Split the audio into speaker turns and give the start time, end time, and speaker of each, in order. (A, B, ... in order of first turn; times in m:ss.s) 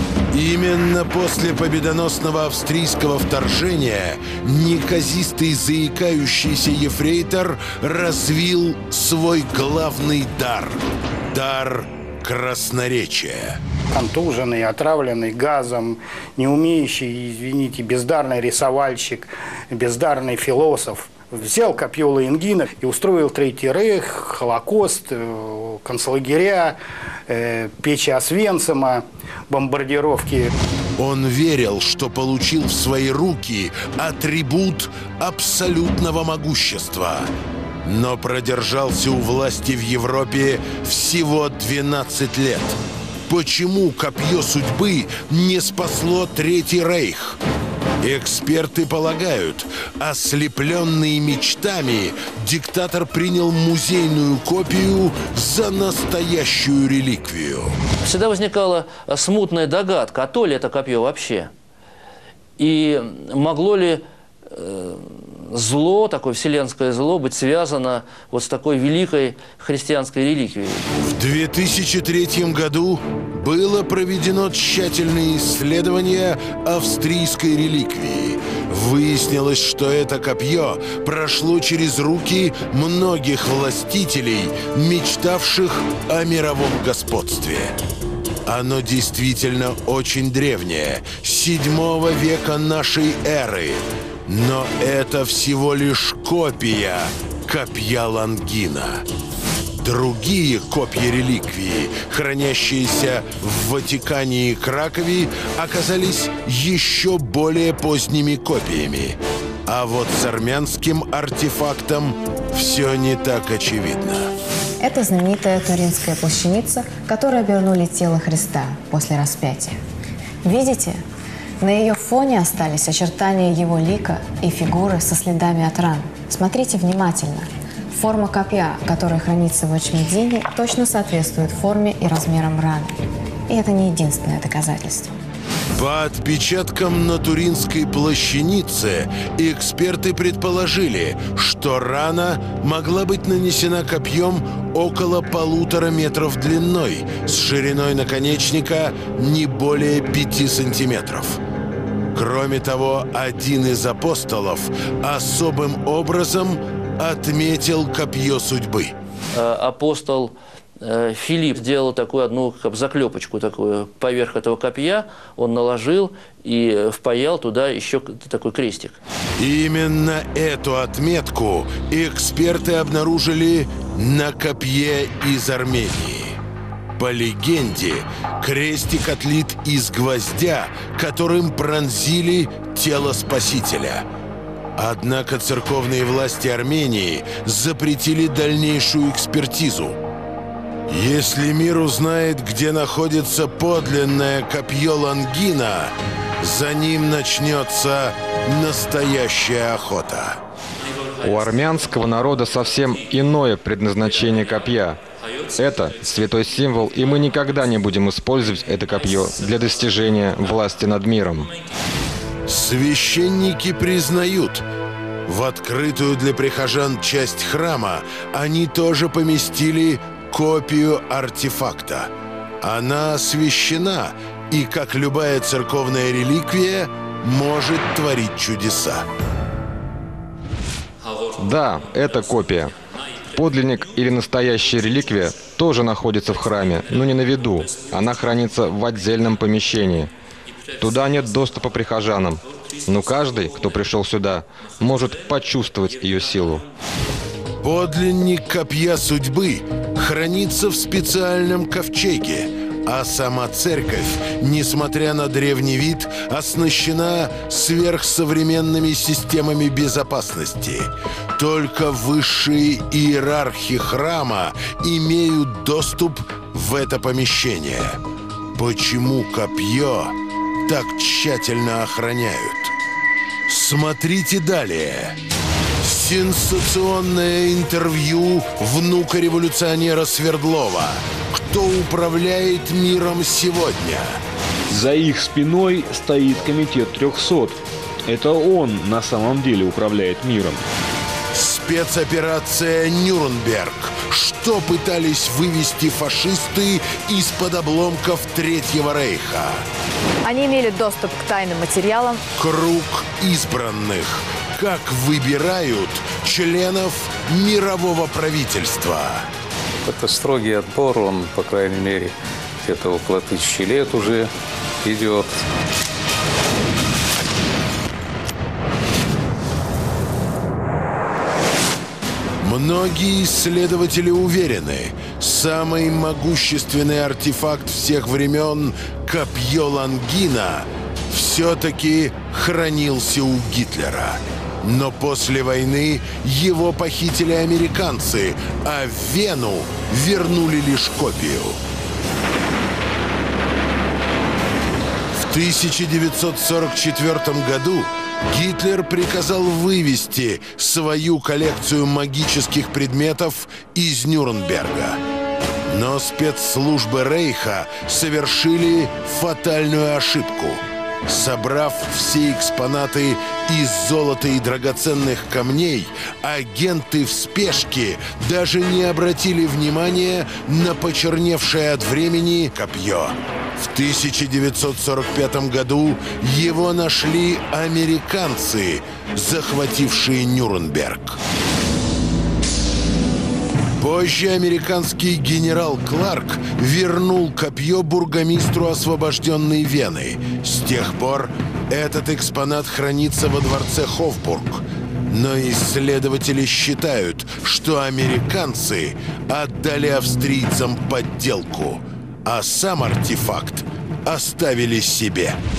0:00.3-0:13.6 A
0:13.9-0:30.5 B
0:31.0-0:37.3 A
0:37.8-0:47.4 A
0:48.0-0:57.8 A
0:58.0-1:01.5 C
1:02.6-1:10.9 C
1:11.0-1:27.8 A
1:28.4-1:39.0 A
1:39.8-1:54.3 A
1:54.8-1:59.8 D
2:00.4-2:01.0 D
2:01.6-2:15.1 D
2:15.7-2:31.4 A
2:32.1-2:38.9 A
2:39.3-2:49.0 C
2:49.4-2:56.4 A
2:57.0-3:04.1 A
3:04.8-3:10.0 A
3:10.9-3:20.4 A
3:21.2-3:25.0 E
3:25.6-3:31.5 E
3:32.5-3:34.6 A
3:35.2-3:49.1 A
3:51.4-3:52.7 E
3:53.3-4:00.1 E
4:00.8-4:06.6 E
4:07.6-4:28.0 A
4:28.5-4:32.7 A
4:33.5-4:35.2 A
4:35.8-4:44.2 A
4:44.7-4:50.6 F
4:51.3-4:59.6 A
5:00.2-5:02.2 D
5:02.4-5:09.3 A
5:09.8-5:14.3 G
5:14.8-5:15.4 G
5:22.4-5:41.6 A
5:45.1-5:55.0 A
5:55.7-6:21.2 A
6:23.8-6:45.4 A